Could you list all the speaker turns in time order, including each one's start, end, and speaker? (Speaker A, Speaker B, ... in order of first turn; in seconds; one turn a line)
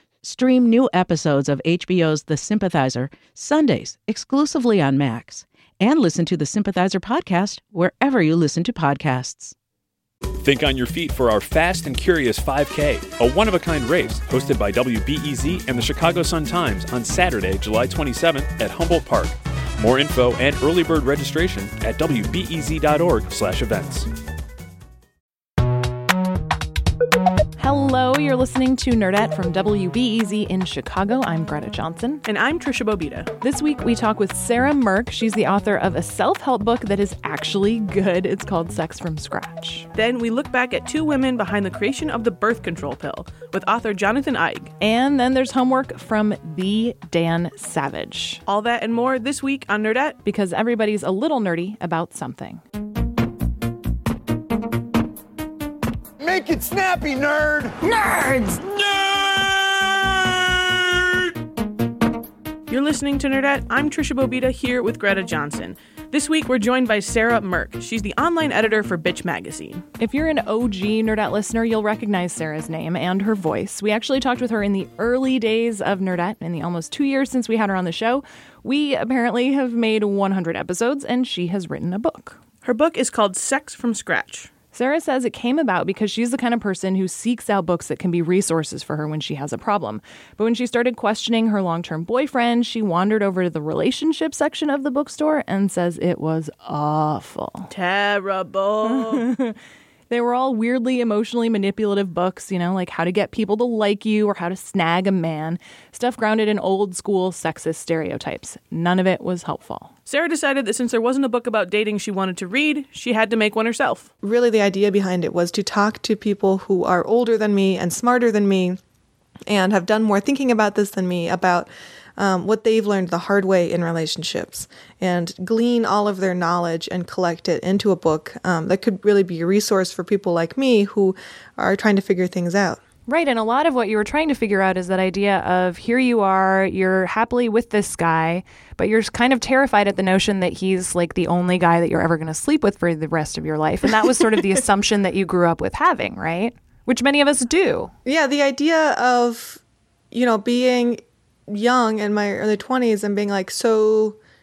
Speaker A: 0.2-9.6
Speaker B: 10.4-24.1
Speaker C: 27.6-32.2
Speaker D: 32.3-33.3
Speaker C: 33.4-39.9
Speaker D: 40.0-44.7
Speaker C: 44.8-48.4
Speaker D: 48.5-50.2
Speaker C: 50.2-52.6
Speaker E: 56.2-61.3
Speaker D: 62.7-69.8
Speaker C: 70.0-82.4
Speaker D: 82.6-84.5
Speaker C: 84.7-97.7
Speaker D: 97.7-99.2
Speaker C: 98.9-99.6
Speaker C: 100.1-109.9
Speaker D: 110.1-114.1
Speaker F: 114.2-118.8
Speaker F: 119.5-132.8
Speaker C: 133.1-147.9
Speaker F: 148.1-154.2